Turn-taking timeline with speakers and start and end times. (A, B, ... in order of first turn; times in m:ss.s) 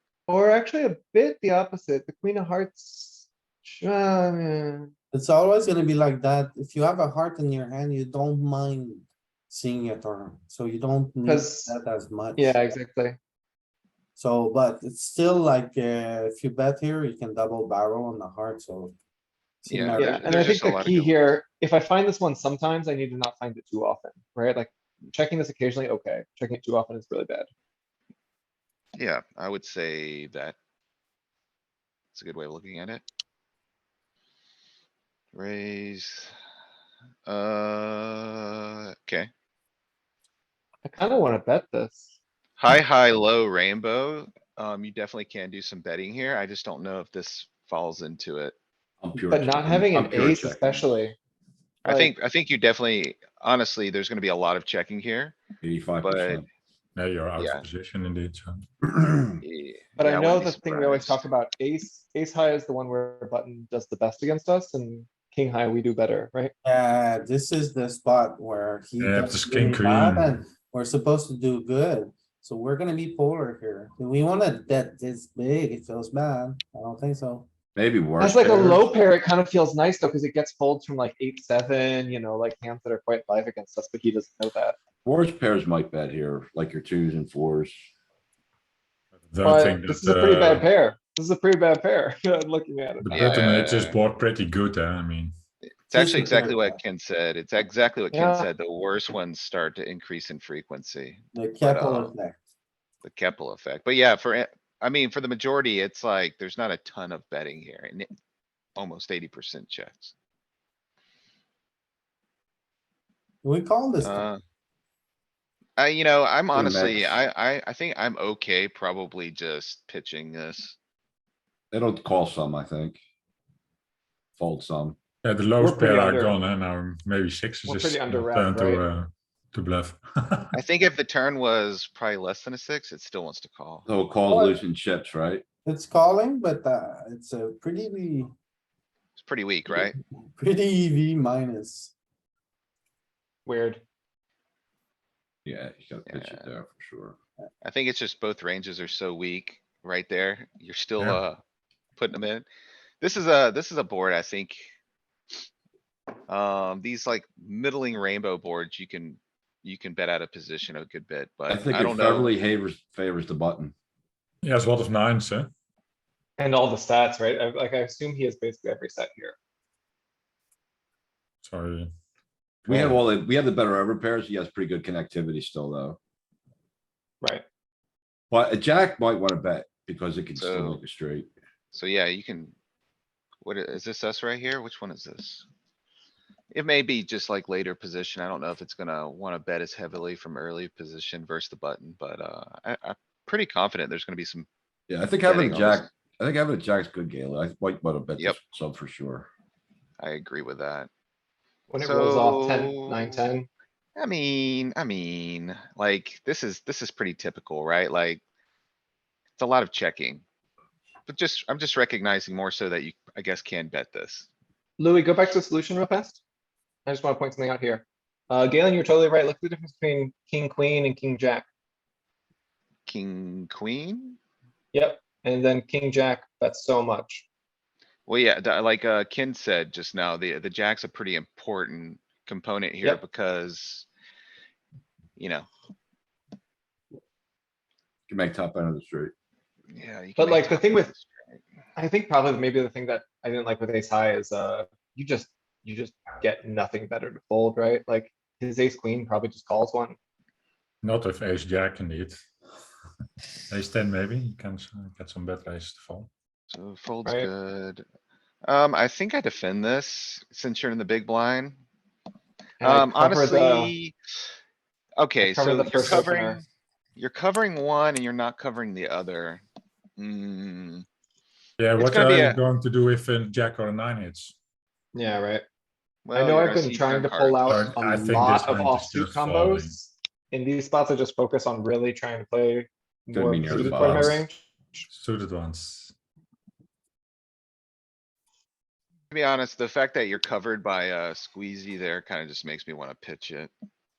0:00.3-0:04.9 A
0:05.1-0:12.6 B
0:11.2-0:11.8 A
0:12.4-0:13.2 A
0:14.2-0:18.9 B
0:19.6-0:20.5 B
0:19.7-0:21.2 C
0:19.9-0:27.5 A
0:28.9-0:30.6 C
0:32.1-0:33.0 C
0:35.3-0:36.3 C
0:37.2-0:39.3 C
0:40.8-0:42.2 A
0:42.6-0:48.5 C
0:49.0-0:51.0 D
0:49.2-0:51.2 A
0:51.8-0:52.1 A
0:51.8-0:55.4 C
0:55.6-0:56.4 D
0:56.0-0:56.4 C
0:57.0-0:58.6 E
0:57.4-0:57.6 C
0:58.9-0:59.4 D
0:59.4-1:01.3 C
1:00.0-1:06.5 A
1:06.6-1:17.5 B
1:09.0-1:10.3 E
1:17.7-1:18.9 D
1:18.2-1:24.8 A
1:25.0-1:27.8 D
1:29.2-1:30.6 E
1:29.4-1:33.2 A
1:33.0-1:35.3 E
1:33.1-1:34.0 C
1:35.9-1:42.1 C
1:35.9-1:36.8 B
1:38.1-1:38.5 A
1:41.3-1:42.4 B
1:43.0-1:48.1 C
1:48.8-1:50.1 C
1:53.4-1:54.2 B
1:54.0-1:54.4 C
1:55.8-2:00.8 C
1:56.5-1:57.2 D
2:01.7-2:03.0 D
2:04.4-2:05.0 D
2:05.2-2:10.5 E
2:05.6-2:06.4 A
2:07.7-2:08.8 A
2:10.5-2:13.9 C
2:13.8-2:15.4 D
2:14.3-2:14.6 B
2:15.6-2:18.3 B
2:19.2-2:19.9 C
2:19.8-2:21.9 B
2:23.4-2:23.8 A
2:25.4-2:27.2 D
2:26.0-2:26.5 C
2:27.6-2:31.4 C
2:32.0-2:32.5 C
2:33.0-2:34.7 C
2:36.3-2:42.3 C
2:41.5-2:43.7 D
2:44.4-2:45.5 E
2:46.4-2:49.4 A
2:51.4-2:51.9 E
2:52.6-2:56.0 D
2:52.7-2:53.0 E
2:58.3-3:01.3 D
3:00.3-3:00.8 C
3:01.7-3:02.6 C
3:03.4-3:05.4 C
3:06.5-3:14.5 C
3:14.9-3:19.3 D
3:15.2-3:15.9 C
3:20.0-3:20.9 C
3:21.7-3:23.5 A
3:21.8-3:23.2 C
3:24.0-3:28.2 C
3:29.4-3:30.2 C
3:31.1-3:34.3 C
3:34.8-3:36.2 A
3:36.8-3:41.4 A
3:42.9-3:44.2 C
3:44.7-3:47.2 A
3:48.1-3:53.9 C
3:55.2-3:55.5 C
3:58.1-3:59.1 D
3:59.7-4:01.4 C
4:00.2-4:00.9 A
4:01.8-4:10.0 A
4:10.8-4:12.2 E
4:13.5-4:16.1 E
4:16.5-4:17.8 C
4:17.0-4:17.3 A
4:18.4-4:21.6 C
4:22.6-4:23.7 A
4:22.6-4:23.9 C
4:25.0-4:26.4 C
4:25.2-4:26.4 A
4:27.0-4:29.4 C
4:30.0-4:30.8 C
4:31.6-4:34.4 E
4:31.8-4:32.4 C
4:34.9-4:35.4 A
4:36.0-4:37.8 C
4:36.1-4:44.4 A
4:37.5-4:39.8 E
4:43.1-4:44.2 D
4:43.5-4:44.3 E
4:44.9-4:45.9 E
4:49.1-4:53.5 C